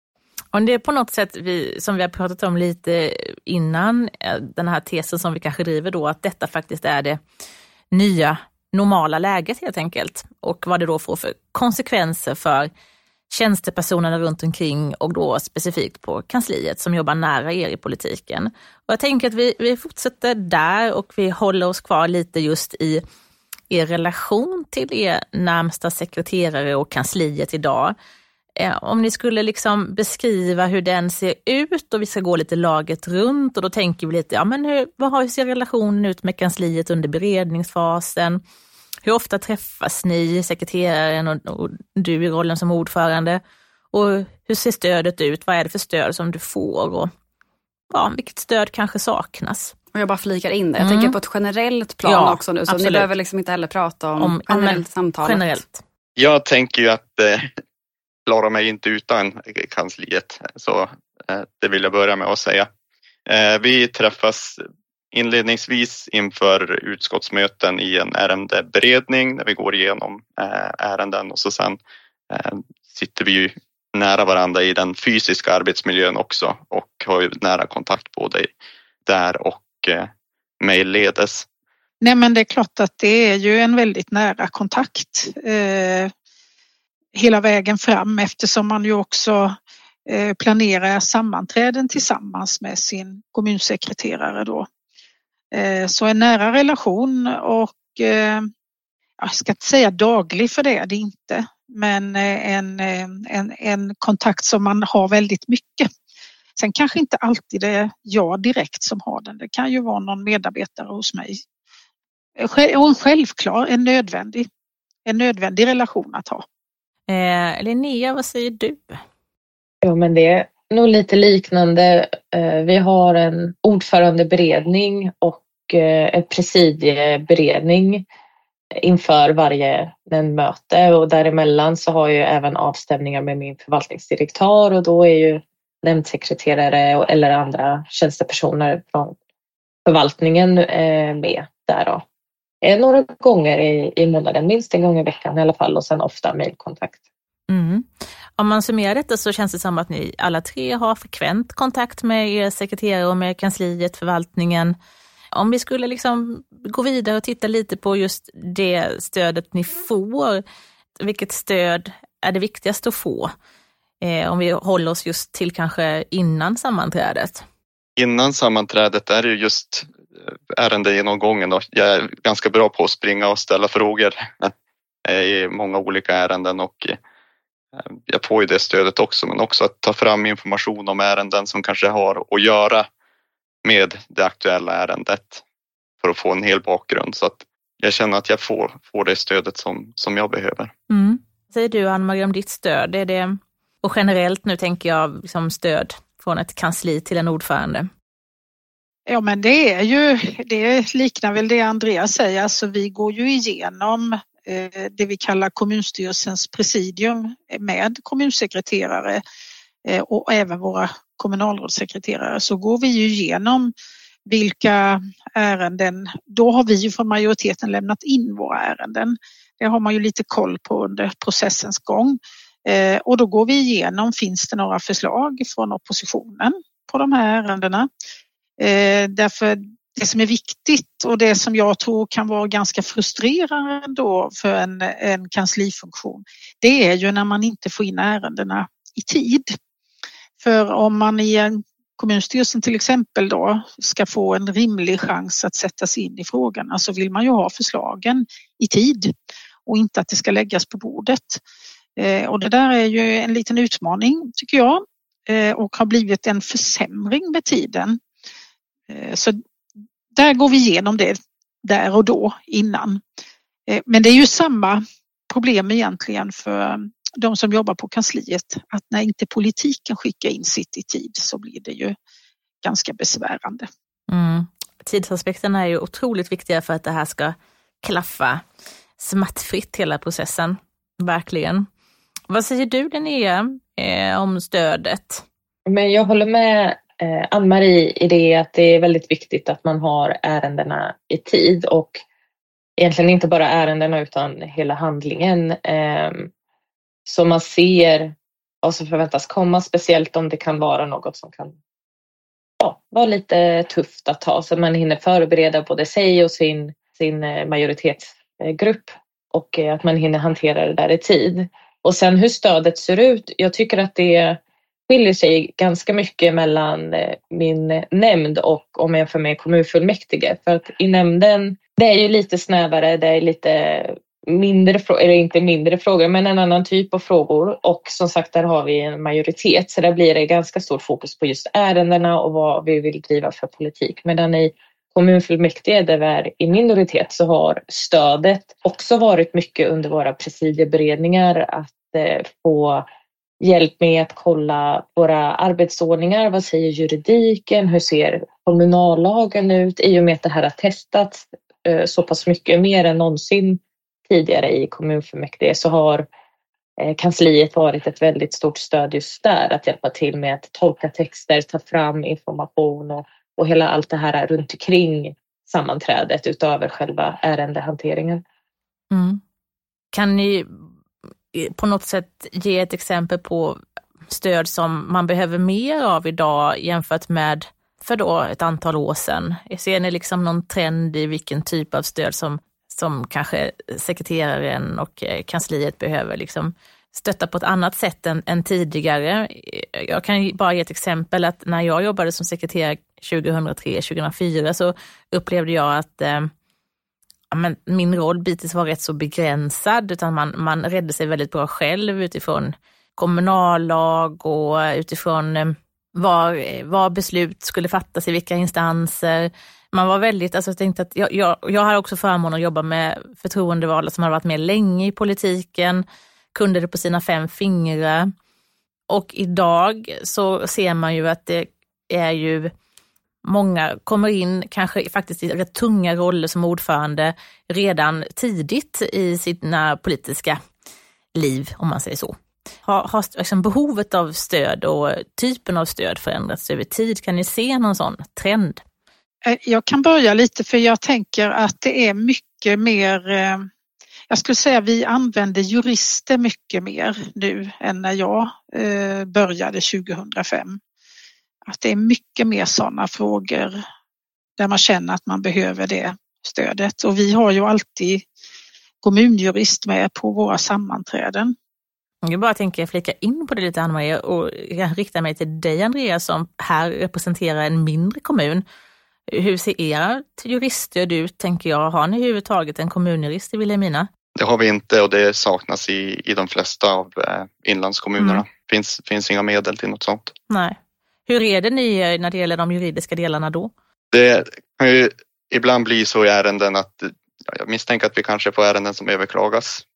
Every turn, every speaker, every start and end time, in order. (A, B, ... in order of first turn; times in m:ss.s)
0:00.5-0:07.2 A
0:07.9-0:12.7 A
0:13.3-0:23.0 A
0:23.7-0:28.0 A
0:28.6-0:38.4 A
0:39.0-0:43.4 A
0:43.9-0:47.1 A
0:47.9-0:49.8 A
0:49.9-0:55.5 B
0:50.8-0:51.2 A
0:52.0-0:53.1 A
0:54.2-0:55.7 A
0:56.2-0:57.6 C
0:58.3-1:02.7 C
1:03.3-1:18.5 C
1:19.1-1:21.5 C
1:22.0-1:26.1 D
1:27.2-1:29.6 D
1:30.1-1:34.7 D
1:35.5-1:38.5 D
1:39.2-1:45.9 D
1:46.6-1:51.4 D
1:52.4-1:54.5 D
1:55.1-1:56.4 D
1:57.1-1:59.0 A
1:59.8-2:08.0 E
2:08.8-2:19.2 E
2:19.9-2:22.0 E
2:22.6-2:27.0 E
2:27.5-2:34.8 A
2:35.4-2:40.4 A
2:41.0-2:43.3 A
2:44.0-2:47.4 A
2:48.0-2:49.9 C
2:50.5-2:54.5 C
2:55.1-2:57.0 C
2:57.8-3:02.9 C
3:03.6-3:05.4 C
3:06.0-3:10.7 C
3:10.9-3:17.9 A
3:19.1-3:29.2 D
3:29.9-3:33.7 D
3:34.3-3:47.9 D
3:48.6-3:59.6 D
4:00.4-4:09.1 D
4:09.7-4:11.4 D
4:12.0-4:18.0 D
4:18.9-4:19.4 D
4:20.1-4:23.0 D
4:23.7-4:32.0 D
4:32.6-4:33.7 D
4:34.1-4:38.4 A
4:39.0-4:41.7 A
4:42.3-4:45.2 A
4:45.7-4:52.0 E
4:52.8-4:56.3 E
4:57.1-5:01.6 E
5:02.6-5:42.8 E
5:43.4-5:56.1 E
5:56.8-6:08.2 E
6:08.9-6:09.2 A
6:09.9-6:10.6 A
6:11.3-6:36.3 A
6:37.3-6:58.1 A
6:58.9-7:02.5 A
7:03.2-7:10.4 A
7:11.2-7:18.6 A
7:19.2-7:23.5 D
7:24.1-7:30.6 D
7:31.5-7:33.6 D
7:34.4-7:38.0 D
7:38.8-7:41.3 D
7:42.0-7:48.4 A
7:49.1-7:53.9 A
7:54.2-8:00.1 C
7:58.0-7:58.2 A
8:00.3-8:00.6 A
8:01.1-8:03.5 A
8:03.9-8:09.6 C